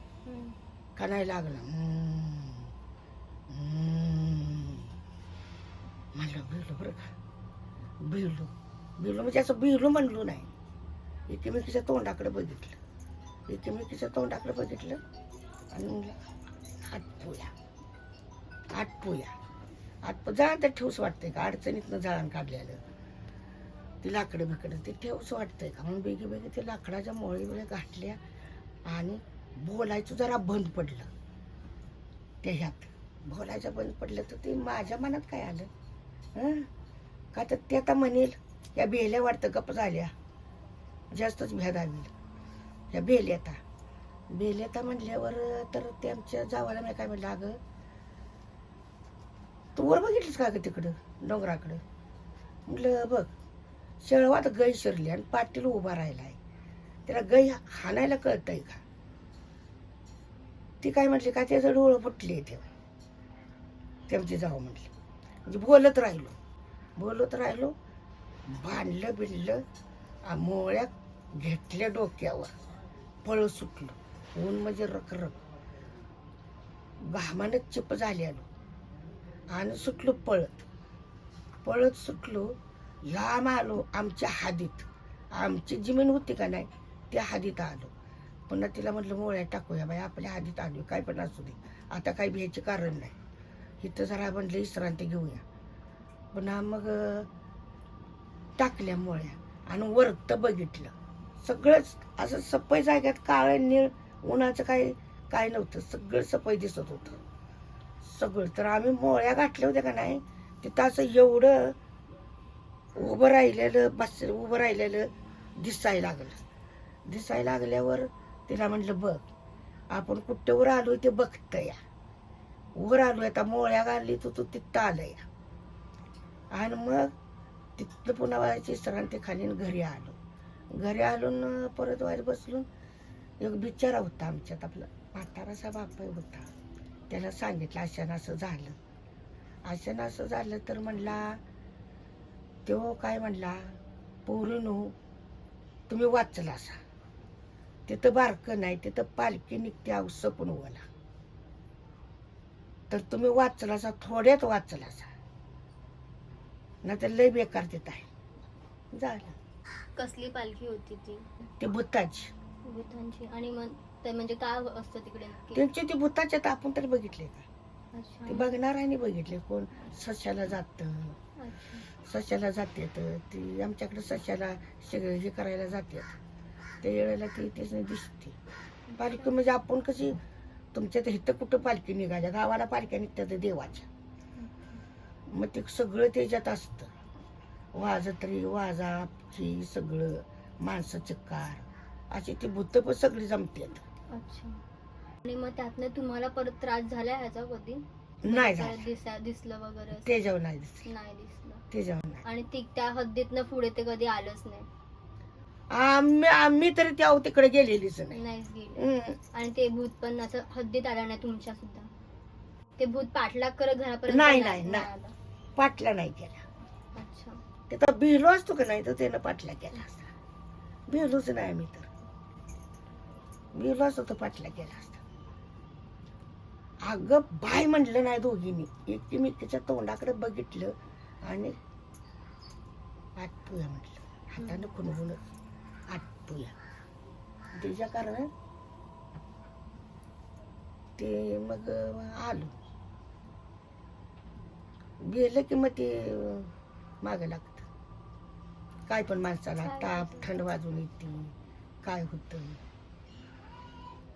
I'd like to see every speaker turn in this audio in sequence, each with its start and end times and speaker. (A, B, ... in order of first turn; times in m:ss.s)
0:00.2-0:00.6 A
0:01.0-0:02.7 B
0:03.5-0:04.9 B
0:06.1-0:07.1 B
0:08.0-0:10.5 B
0:11.3-0:12.8 B
0:13.5-0:15.0 B
0:15.7-0:16.2 B
0:16.8-0:17.5 B
0:18.7-0:19.3 B
0:20.0-0:22.8 B
0:24.0-0:28.2 B
0:28.8-0:31.1 B
0:32.4-0:35.7 B
0:36.3-0:36.7 B
0:37.3-0:40.1 B
0:41.1-0:42.1 B
0:42.9-0:43.6 B
0:44.3-0:47.6 B
0:49.7-0:51.8 B
0:52.7-0:53.3 B
0:54.0-0:56.4 B
0:57.0-0:58.8 B
1:00.8-1:02.7 B
1:04.1-1:04.9 B
1:05.4-1:06.4 B
1:07.0-1:07.7 B
1:08.5-1:09.6 B
1:10.2-1:12.5 B
1:13.2-1:15.4 B
1:17.0-1:18.5 B
1:19.5-1:20.6 B
1:21.6-1:27.9 B
1:28.5-1:33.1 B
1:33.8-1:35.4 B
1:36.3-1:37.3 B
1:38.6-1:47.2 B
1:48.0-1:51.8 B
1:52.9-1:56.4 B
1:57.1-1:59.2 B
1:59.9-2:01.8 B
2:02.8-2:05.2 B
2:06.5-2:07.1 B
2:07.8-2:10.2 B
2:10.7-2:12.7 B
2:13.4-2:16.5 B
2:17.1-2:18.8 B
2:19.6-2:21.4 B
2:22.6-2:24.9 B
2:25.9-2:26.8 B
2:27.9-2:30.8 B
2:32.9-2:35.1 B
2:36.8-2:38.1 B
2:38.9-2:39.4 B
2:40.0-2:41.2 A
2:41.6-2:42.3 B
2:42.6-2:45.6 A
2:45.5-2:47.5 B
2:47.9-2:48.5 A
2:48.3-2:51.2 B
2:51.4-2:51.9 A
2:52.0-2:56.2 B
2:56.8-2:58.4 B
2:59.0-3:00.2 B
3:00.7-3:03.9 B
3:04.4-3:04.8 A
3:05.3-3:06.9 B
3:07.7-3:13.8 B
3:14.1-3:14.6 A
3:15.2-3:20.2 A
3:18.2-3:18.8 B
3:19.9-3:20.9 B
3:20.8-3:21.6 A
3:21.7-3:22.2 B
3:22.2-3:24.7 A
3:25.7-3:28.2 B
3:28.1-3:31.9 A
3:28.8-3:29.2 B
3:32.8-3:35.1 A
3:34.1-3:34.9 B
3:35.6-3:36.4 B
3:36.9-3:37.4 A
3:37.7-3:40.1 B
3:40.9-3:41.9 B
3:43.5-3:45.0 B
3:46.8-3:51.6 B
3:53.2-3:55.2 B
3:55.9-3:56.5 B
3:57.5-3:58.3 B
4:01.0-4:02.6 B
4:05.0-4:07.7 B
4:08.9-4:12.6 B
4:09.6-4:10.5 A